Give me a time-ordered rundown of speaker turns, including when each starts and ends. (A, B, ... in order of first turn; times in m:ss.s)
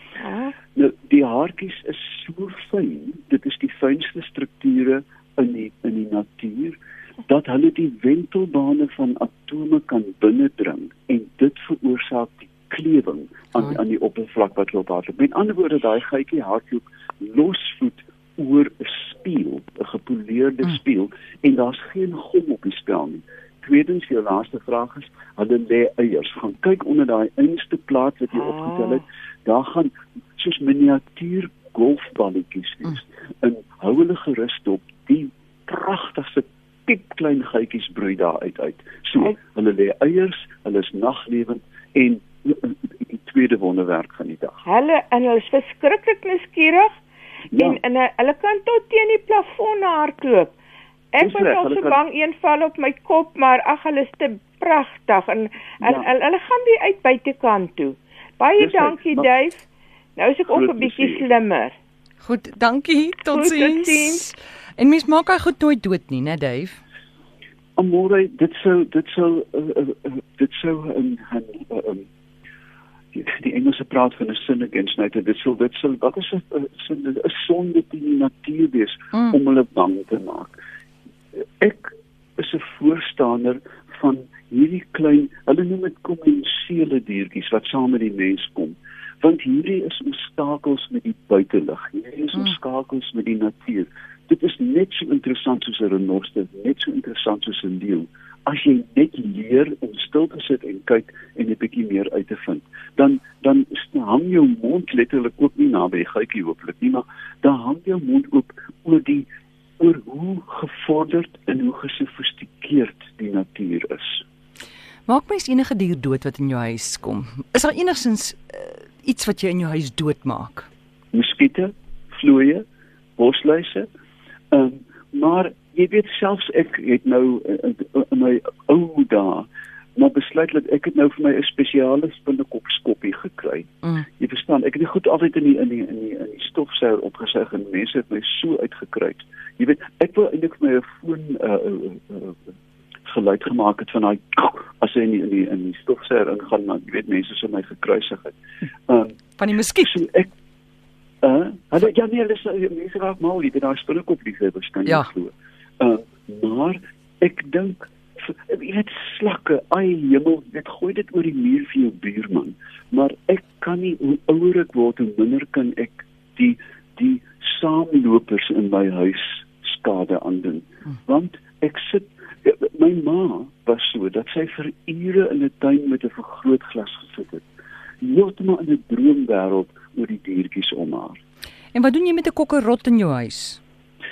0:00.2-0:00.6 A
0:00.8-0:44.6 B
0:44.7-0:46.9 A
0:47.5-0:47.8 B
0:47.5-0:50.5 A
0:51.1-0:59.6 A
0:51.2-0:52.0 B
0:55.8-0:56.1 B
0:58.6-0:59.3 B
1:00.2-1:01.8 A
1:00.5-1:01.3 B
1:02.2-1:06.8 C
1:03.3-1:04.3 A
1:07.8-1:12.1 B
1:13.1-1:20.6 B
1:21.6-1:49.3 B
1:49.8-1:54.2 B
1:55.1-2:00.7 C
2:01.1-2:02.6 B
2:03.2-2:03.9 B
2:04.5-2:22.4 B
2:23.1-2:28.4 B
2:28.9-2:29.2 B
2:29.4-2:29.9 C
2:29.8-2:30.3 B
2:31.2-2:57.4 B
2:58.0-3:01.2 B
3:01.7-3:03.6 C